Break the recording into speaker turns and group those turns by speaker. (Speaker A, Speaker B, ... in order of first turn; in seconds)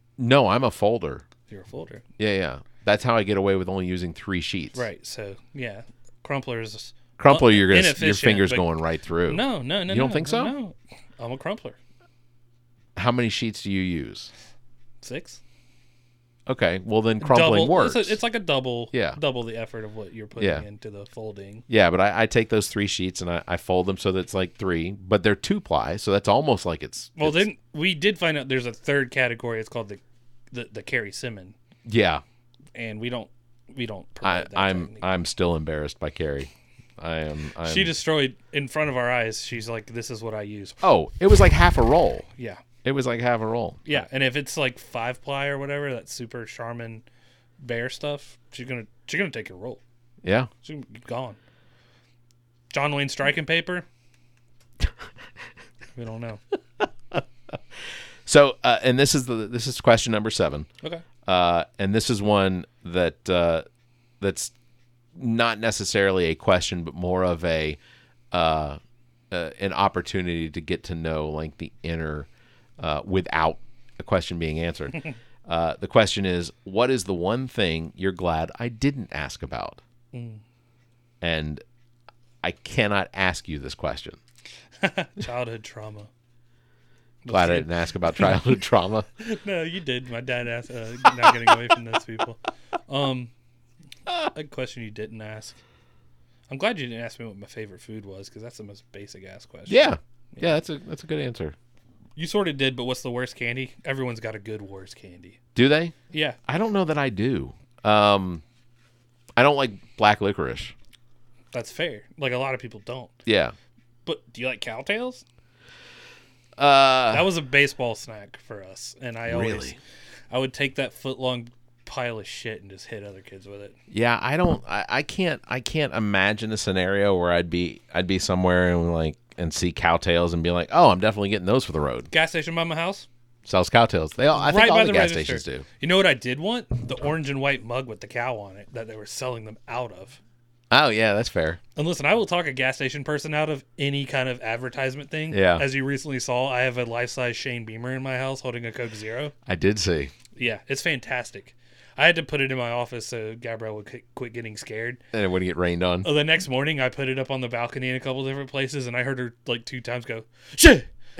Speaker A: 0.2-1.2, 2.2-4.8, 7.2-10.5, 12.9-14.3, 16.5-18.2, 18.9-19.2, 20.4-20.6, 21.7-27.5, 31.8-32.2, 34.2-37.9, 40.8-42.3, 42.8-44.0, 50.2-50.5, 58.2-60.7, 61.2-63.6, 64.2-64.5, 65.1-67.8, 68.3-68.8, 69.3-72.3, 72.8-79.8, 81.2-81.6, 82.4-84.2, 87.3-89.1, 99.7-101.5, 105.5-105.9, 106.5-108.4, 109.3-110.7, 113.2-113.5, 116.6-117.3, 119.2-119.8, 123.9-132.1, 133.4-135.6, 140.7-141.6, 145.3-145.7, 149.4-150.1, 155.1-156.1
Speaker B: 1.5-2.0, 4.7-8.6, 9.3-11.8, 15.0-15.4, 17.2-21.6, 27.2-30.0, 30.5-31.6, 32.7-35.1, 37.6-40.8, 42.4-42.6, 43.9-47.0, 47.6-49.8, 50.6-51.4, 52.7-53.8, 56.0-56.4, 80.1-80.4, 84.8-86.1, 87.2-88.6, 89.2-93.3, 94.3-95.6, 96.5-100.5, 102.2-105.4, 106.1-106.4, 111.5-113.1, 114.0-115.2, 117.1-119.8, 120.3-123.8, 132.1-133.1, 134.3-140.2, 141.8-149.3, 150.3-155.0, 156.0-160.9